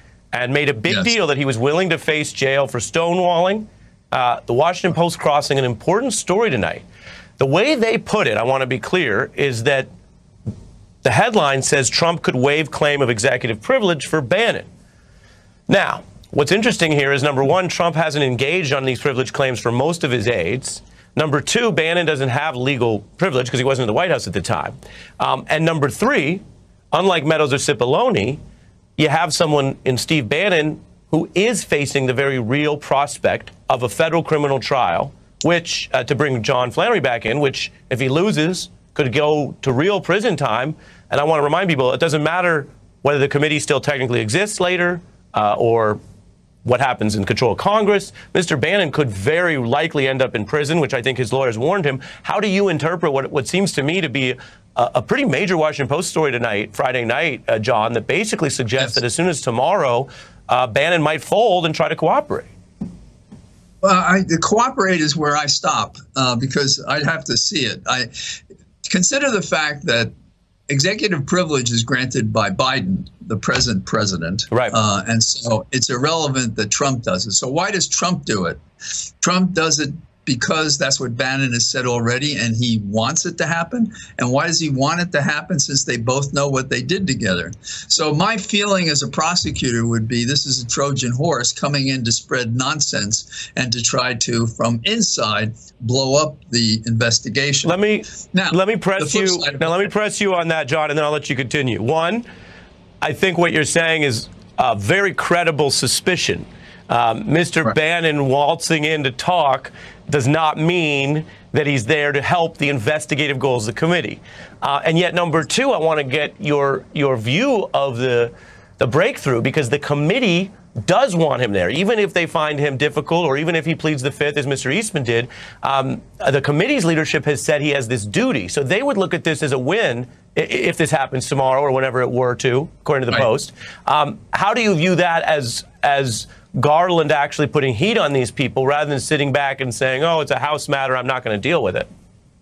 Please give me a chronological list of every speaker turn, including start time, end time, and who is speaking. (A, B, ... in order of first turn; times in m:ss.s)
0:00.3-0:06.8 A
0:00.9-0:01.1 B
0:07.4-0:09.9 A
0:11.0-0:14.7 A
0:15.7-0:28.4 A
0:29.0-0:46.0 A
0:46.6-1:02.5 A
1:03.8-1:08.1 B
1:08.8-1:10.1 B
1:10.7-1:18.6 B
1:19.2-1:37.8 B
1:37.6-1:42.2 A
1:38.3-1:39.8 B
1:43.0-2:21.9 A